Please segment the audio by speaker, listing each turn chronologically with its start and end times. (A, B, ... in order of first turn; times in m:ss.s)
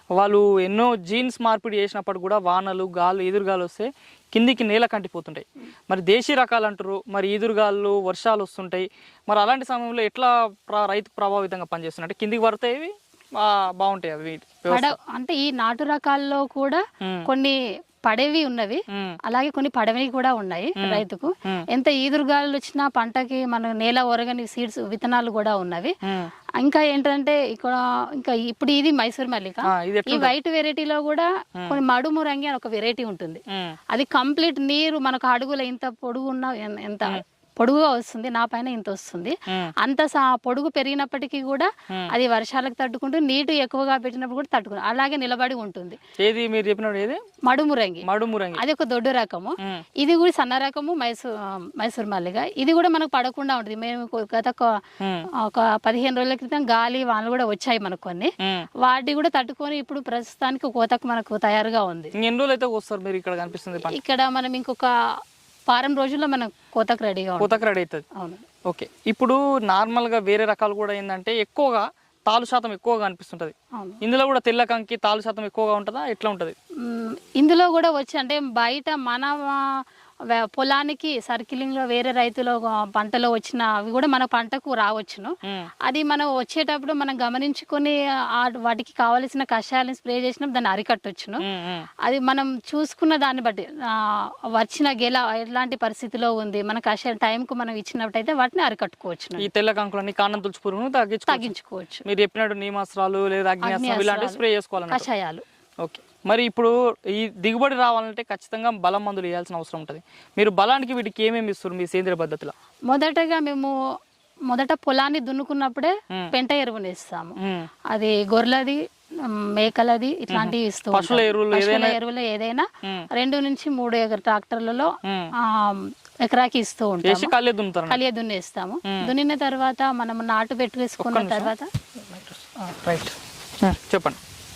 0:00.1-0:14.9 A
0:14.7-0:25.9 B
0:17.0-0:17.3 A
0:18.9-0:19.2 A
0:20.8-0:21.6 A
0:26.0-0:26.3 A
0:26.6-0:46.0 B
0:29.7-0:30.3 A
0:46.2-0:47.2 A
0:47.4-0:48.0 B
0:48.0-0:48.6 A
0:48.6-0:54.7 B
0:55.0-0:55.3 A
0:55.4-1:02.1 B
1:02.2-1:04.0 A
1:03.9-1:04.9 B
1:05.7-1:07.6 B
1:07.4-1:08.0 A
1:08.1-1:08.4 B
1:08.6-1:16.5 A
1:13.7-1:14.0 B
1:16.8-1:25.3 B
1:25.8-1:31.4 B
1:31.4-1:31.9 A
1:32.0-1:39.5 B
1:39.4-1:41.5 A
1:41.3-1:42.0 B
1:42.1-1:45.1 A
1:43.6-1:45.4 B
1:45.8-1:52.5 A
1:52.9-1:53.7 B
1:54.5-1:57.3 B
1:57.4-1:57.7 A
1:57.9-2:07.3 B
2:00.3-2:02.0 A
2:05.0-2:05.3 A
2:07.0-2:08.0 A
2:07.9-2:11.7 B
2:11.0-2:11.5 A
2:12.0-2:14.2 A